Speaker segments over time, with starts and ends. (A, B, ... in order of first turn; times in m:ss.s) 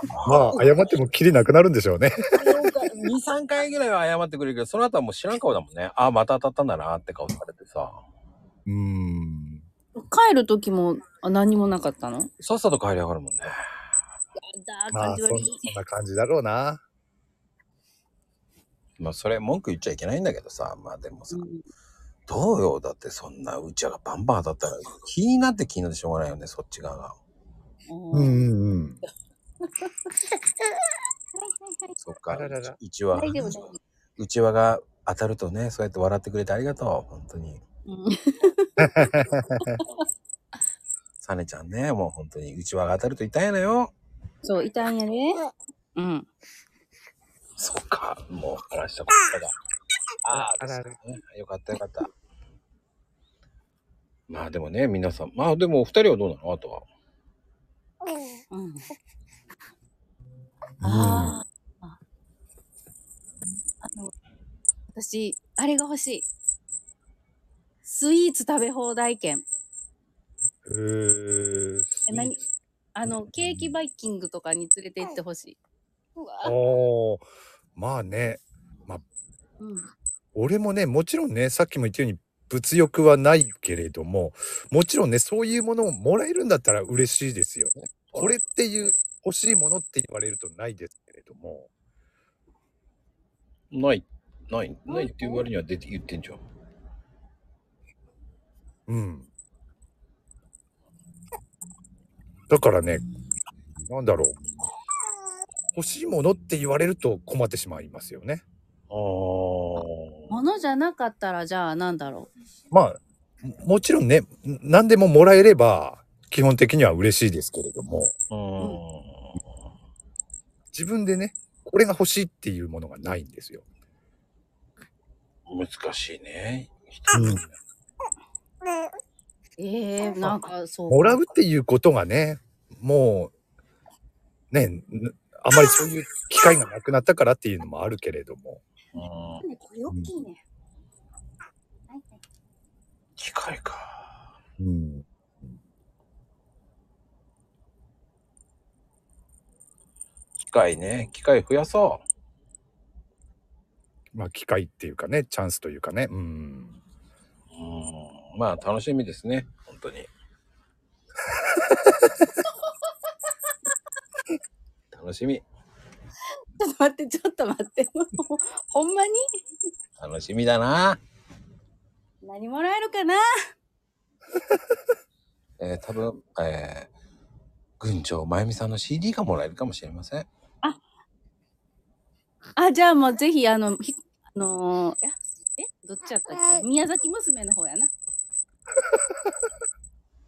0:00.1-0:00.9 A
0:00.2-0:02.6 B
0:02.4-0:08.0 A
0:08.7-0:09.6 B
0:10.0-0:12.3 C
0:12.4-0:13.6 A
0:14.4-0:15.7 C
0:14.9-0:16.8 B
0:19.0-0:21.5 A
0:21.3-0:21.6 C
0:22.3-0:27.2 A
0:27.9-0:28.4 C
0:28.1-0:29.0 B
0:31.4-0:31.9 C
0:32.0-0:33.6 A
0:32.3-0:32.8 B
0:33.1-0:33.8 C
0:34.2-0:37.6 A
0:37.9-0:40.0 C
0:38.8-0:39.8 B
0:41.2-0:43.9 A
0:44.4-0:45.4 C
0:46.0-0:46.3 C
0:47.6-0:49.5 A
0:50.2-0:52.1 A
0:50.3-0:51.0 B
0:54.3-0:56.8 A
0:58.5-0:58.9 C
1:00.8-1:01.4 B
1:00.8-1:02.0 C
1:03.8-1:04.1 C
1:04.9-1:06.3 C
1:07.8-1:09.4 C
1:10.7-1:12.4 B
1:12.1-1:12.4 C
1:13.0-1:15.6 C
1:13.1-1:13.7 B
1:16.2-1:16.5 C
1:16.4-1:17.2 B
1:17.8-1:19.0 B
1:19.6-1:19.9 C
1:20.4-1:31.7 B
1:28.1-1:28.3 A
1:33.7-1:36.4 A
1:34.9-1:35.4 C
1:38.9-1:39.3 B
1:42.5-1:43.0 B
1:43.9-1:44.4 B
1:45.8-1:48.4 B
1:48.9-1:50.3 A
1:50.3-1:52.3 C
1:52.7-1:58.1 B
1:58.3-1:59.4 A
2:00.7-2:03.6 B
2:05.5-2:07.5 A
2:07.1-2:07.4 B
2:09.6-2:11.2 C
2:10.2-2:13.3 B
2:14.5-2:18.6 B
2:19.0-2:19.4 A
2:19.4-2:20.4 C
2:21.9-2:22.2 C
2:23.2-2:24.1 A
2:24.6-2:25.5 B
2:30.4-2:32.0 A
2:34.1-2:36.8 B
2:37.5-2:40.1 A
2:44.9-2:45.4 A
2:46.6-2:49.2 C
2:50.0-2:51.0 A
2:52.2-2:53.2 C
2:55.6-2:56.9 A
2:57.8-3:00.3 A
3:02.6-3:07.9 C